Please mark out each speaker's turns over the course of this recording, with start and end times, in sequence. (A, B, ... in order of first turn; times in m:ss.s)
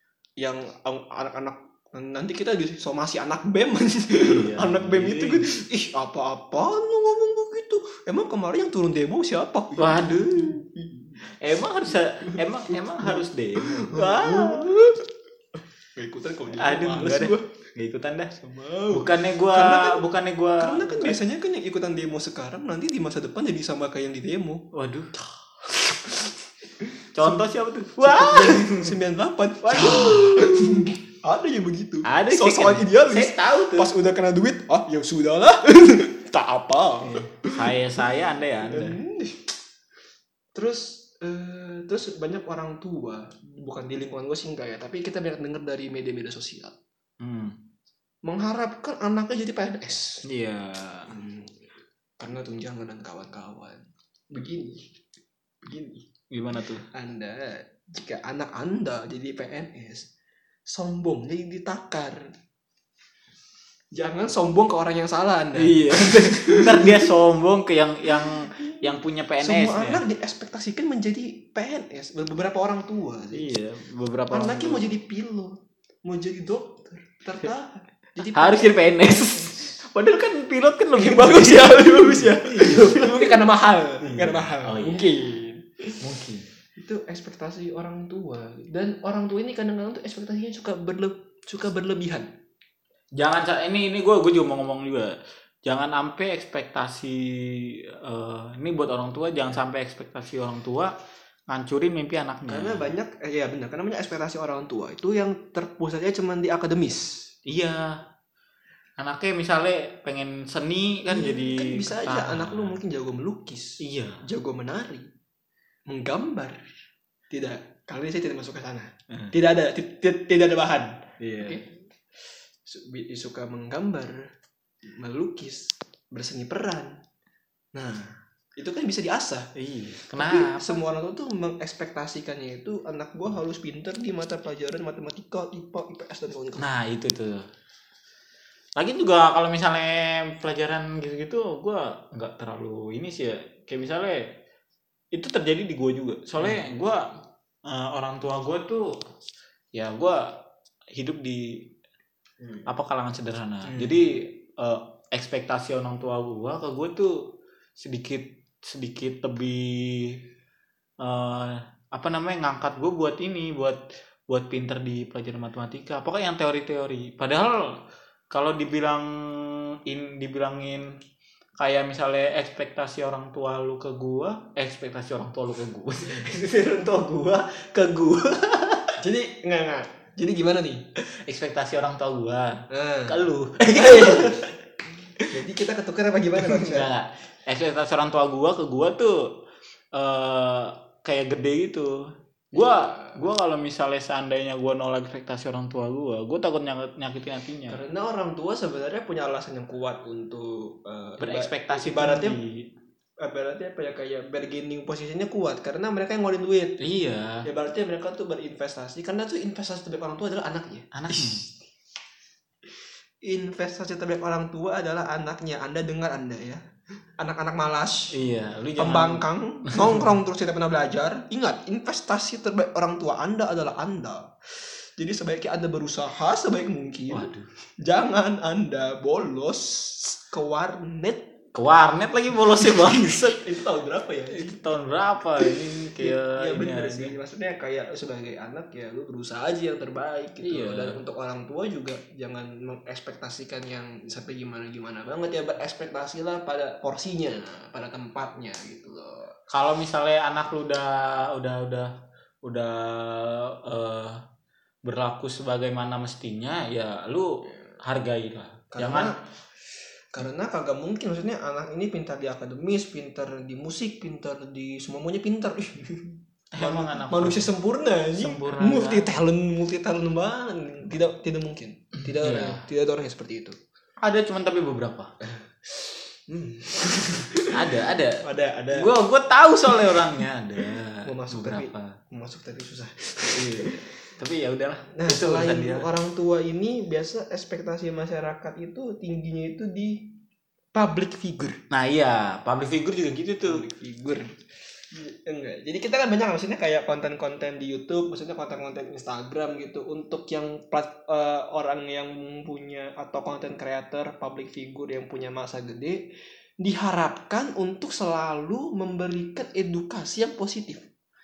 0:00.4-0:11.2 A
0:04.2-0:05.5 B
0:09.8-0:10.6 B
0:11.4-0:14.7 B
0:11.9-0:15.0 A
0:16.0-0:17.5 A
0:16.5-0:18.3 B
0:18.4-0:20.0 A
0:18.9-0:21.2 B
0:20.6-0:24.7 A
0:24.7-0:25.1 B
0:25.6-0:27.4 A
0:27.2-0:28.9 B
0:28.0-0:37.7 A
0:29.6-0:30.9 B
0:32.0-0:33.9 B
0:37.0-0:39.0 B
0:38.7-0:39.5 A
0:40.6-0:46.8 A
0:47.2-0:47.6 B
0:48.2-0:50.3 A
0:50.3-0:51.1 B
0:51.1-0:54.9 A
0:55.6-0:56.1 A
0:56.3-0:56.9 B
0:56.9-1:00.1 A
1:00.7-1:02.2 A
1:03.9-1:07.1 A
1:05.6-1:10.0 B
1:08.1-1:08.8 A
1:09.4-1:13.5 A
1:13.3-1:14.9 B
1:14.3-1:19.7 A
1:18.2-1:23.4 B
1:21.0-1:26.0 A
1:24.0-1:25.1 B
1:26.0-1:26.4 B
1:26.8-1:32.3 A
1:33.2-1:40.9 B
1:41.5-1:42.9 B
1:42.5-1:47.3 A
1:47.5-1:48.0 B
1:49.0-1:52.8 B
1:51.0-1:55.1 A
1:53.8-1:54.2 B
1:55.9-1:56.7 A
1:57.3-2:01.7 A
2:01.2-2:01.6 B
2:02.6-2:04.3 A
2:04.9-2:07.0 A
2:07.8-2:09.5 A
2:09.6-2:10.8 B
2:10.2-2:16.7 A
2:16.6-2:17.5 B
2:18.8-2:24.4 B
2:25.1-2:27.1 B
2:27.7-2:28.9 B
2:29.7-2:30.4 B
2:30.9-2:31.7 B
2:32.7-2:37.2 B
2:33.6-2:34.0 A
2:37.8-2:40.2 B
2:41.0-2:47.8 B
2:48.3-2:50.9 B
2:51.6-2:59.0 B
2:59.0-3:00.8 A
3:01.2-3:04.5 B
3:02.7-3:06.9 A
3:06.4-3:09.3 B
3:09.9-3:17.8 B
3:12.6-3:13.2 A
3:17.7-3:22.4 A
3:21.2-3:22.7 B
3:23.2-3:26.8 A
3:26.8-3:27.5 B
3:27.4-3:31.5 A
3:30.9-3:31.5 B
3:33.2-3:36.6 A
3:37.2-3:38.2 A
3:38.1-3:40.1 B
3:38.8-3:51.4 A
3:47.1-3:47.5 B
3:51.5-3:53.5 B
3:52.6-3:54.6 A
3:54.3-3:57.1 B
3:55.4-4:09.3 A
4:00.4-4:01.0 B
4:09.5-4:11.9 B
4:12.4-4:14.2 B
4:14.8-4:19.1 B
4:18.7-4:19.2 A
4:20.1-4:33.6 A
4:26.5-4:27.5 B
4:28.1-4:29.2 B
4:32.1-4:32.6 B
4:34.0-4:35.1 B
4:35.2-4:38.9 A
4:37.5-4:42.0 B
4:39.7-4:40.2 A
4:41.0-4:43.8 A
4:43.3-4:45.9 B
4:44.9-4:50.1 A
4:50.8-4:51.6 A
4:51.7-4:53.6 B
4:53.4-4:54.4 A
4:54.9-5:06.0 A
5:06.6-5:10.9 A